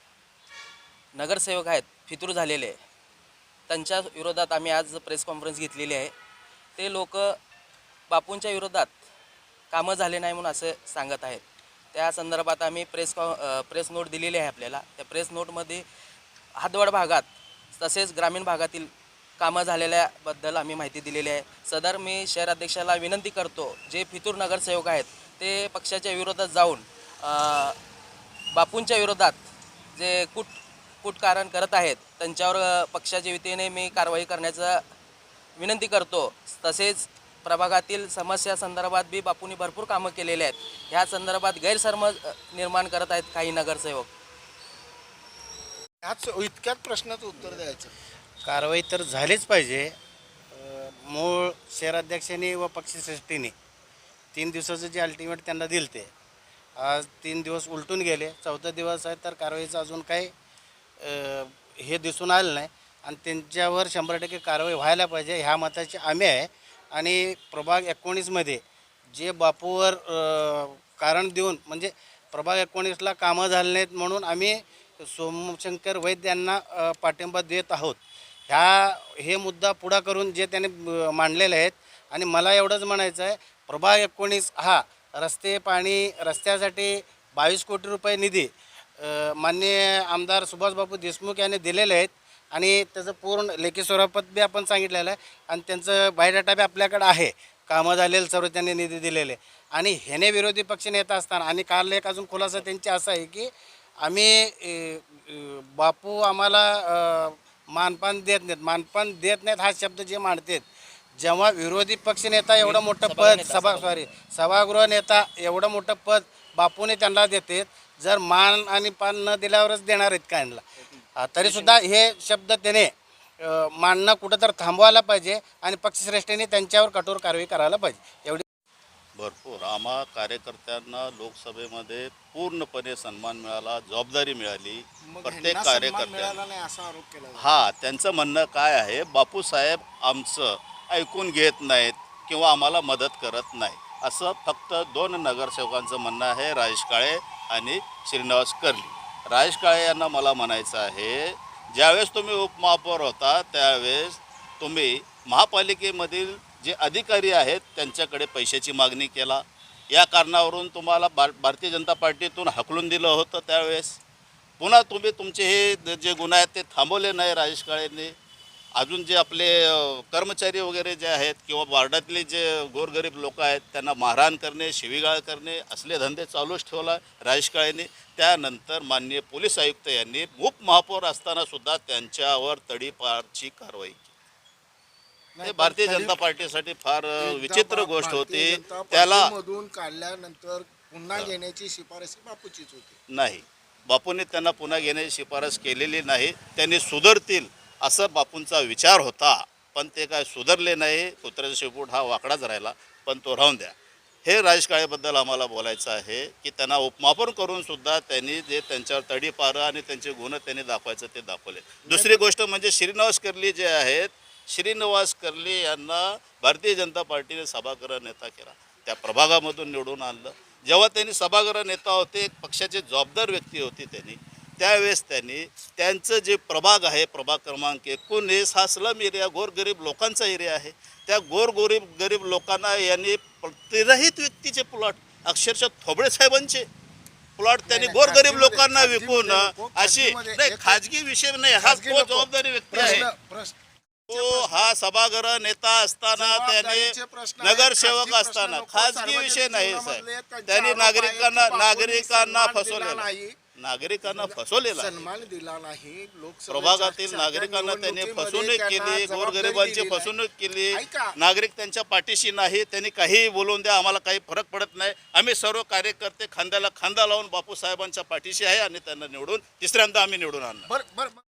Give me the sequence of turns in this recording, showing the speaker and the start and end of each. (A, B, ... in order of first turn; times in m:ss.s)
0:01.1-0:02.8 A
0:03.7-0:06.1 A
0:06.8-0:07.4 A
0:08.1-0:08.9 A
0:09.7-0:11.4 A
0:11.9-0:15.8 A
0:16.6-0:27.8 A
0:28.5-0:29.4 A
0:29.9-0:34.8 A
0:35.6-0:44.1 A
0:46.0-0:47.9 B
0:48.4-0:49.9 C
0:50.5-0:53.5 C
0:54.3-0:56.1 C
0:56.8-1:00.3 C
1:01.0-1:43.5 C
1:44.0-1:50.6 C
1:51.2-2:00.6 C
1:52.6-1:54.1 A
2:01.2-2:08.4 C
2:01.4-2:01.8 A
2:09.2-2:16.4 D
2:15.0-2:17.5 B
2:17.4-2:44.0 D
2:44.6-2:48.1 D
2:48.8-3:04.1 D
3:05.4-3:06.2 B
3:05.4-3:09.3 D
3:07.2-3:13.0 B
3:13.1-3:56.6 D
3:31.8-3:32.2 B
3:57.4-4:03.1 D
3:57.6-4:00.8 B
4:01.6-4:03.6 B
4:04.1-4:04.7 B
4:04.1-4:15.1 D
4:06.1-4:13.3 B
4:14.0-4:20.1 B
4:16.5-4:30.6 D
4:20.7-4:21.1 B
4:30.6-4:31.2 B